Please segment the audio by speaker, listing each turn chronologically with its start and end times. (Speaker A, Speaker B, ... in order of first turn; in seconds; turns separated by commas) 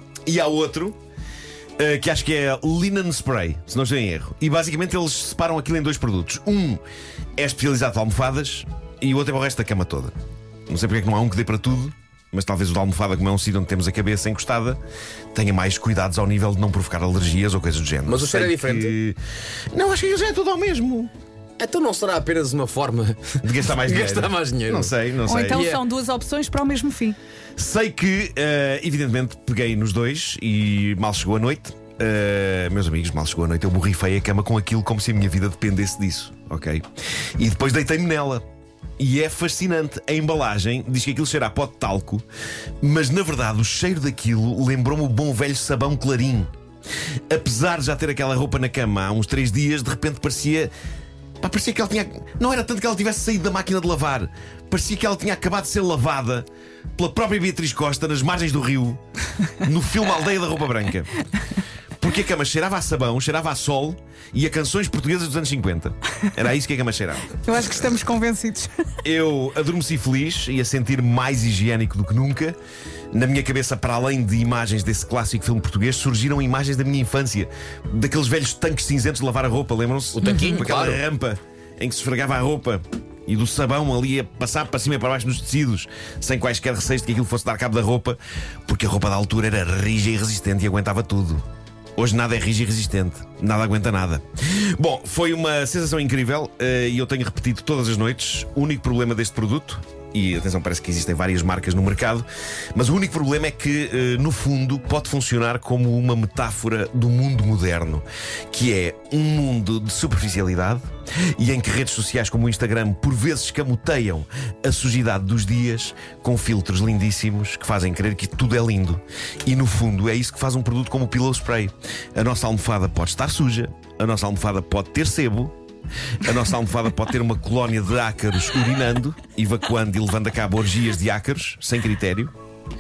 Speaker A: 0.3-1.0, Speaker A: 1.8-6.8, Speaker A: 7.4-10.2, Speaker A: 10.7-14.8, Speaker A: 15.3-19.2, Speaker B: 18.1-19.0, Speaker A: 19.7-21.1, Speaker B: 21.6-25.8, Speaker A: 23.4-25.7, Speaker C: 25.3-27.2, Speaker A: 27.6-36.9, Speaker A: 37.4-38.4, Speaker A: 39.0-42.2, Speaker A: 42.8-46.5, Speaker A: 47.3-50.7, Speaker A: 51.4-59.0, Speaker A: 59.6-61.2, Speaker A: 62.0-67.4, Speaker C: 67.4-68.9, Speaker A: 69.0-72.6, Speaker A: 73.1-91.4, Speaker B: 80.2-81.0, Speaker A: 92.0-125.6, Speaker A: 126.2-132.3